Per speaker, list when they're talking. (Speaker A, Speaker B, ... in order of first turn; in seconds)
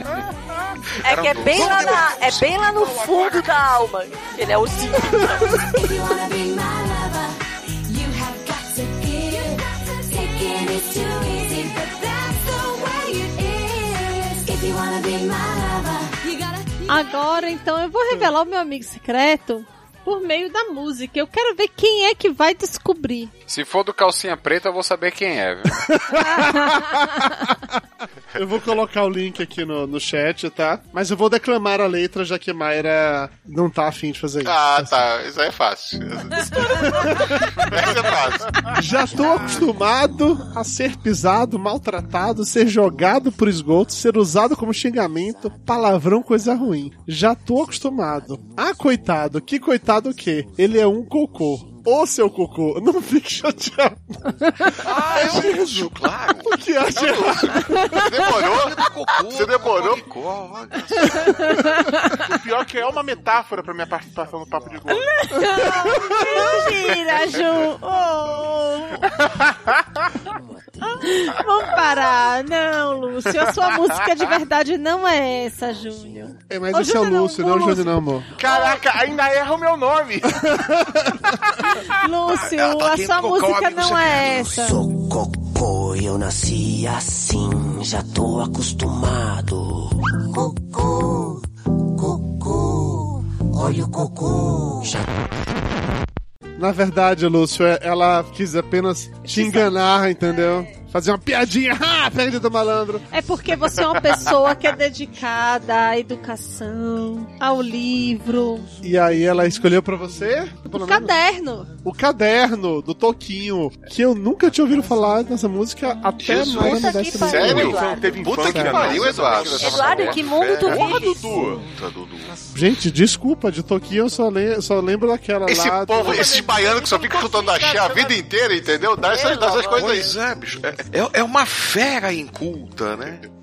Speaker A: 1.0-5.5, 116.3-118.2, 119.6-121.3, 126.3-128.1, 129.0-130.0
Speaker B: 1.0-3.5, 54.8-57.5, 58.5-61.4, 82.3-84.5, 116.4-116.7, 118.4-122.4, 125.5-126.4, 129.7-133.2
Speaker C: 5.6-17.0
Speaker D: 16.9-23.3, 26.1-27.0, 61.4-62.2, 64.9-69.2, 70.9-78.8, 81.8-84.8, 99.3-99.7, 103.1-108.7, 110.7-111.8
Speaker E: 23.5-25.8, 119.3-120.2
Speaker F: 25.9-27.2, 28.3-35.0, 36.8-37.4, 38.7-58.0, 65.7-66.6, 76.5-78.3, 80.5-81.2, 96.6-103.1, 108.8-111.2, 111.8-119.0, 122.5-126.2
Speaker G: 34.4-38.7, 57.1-57.4, 58.0-60.0, 116.3-120.1, 125.5-130.2
Speaker H: 62.2-65.1, 78.4-80.5, 117.4-119.6, 120.6-121.7
Speaker I: 84.4-91.4, 92.0-95.2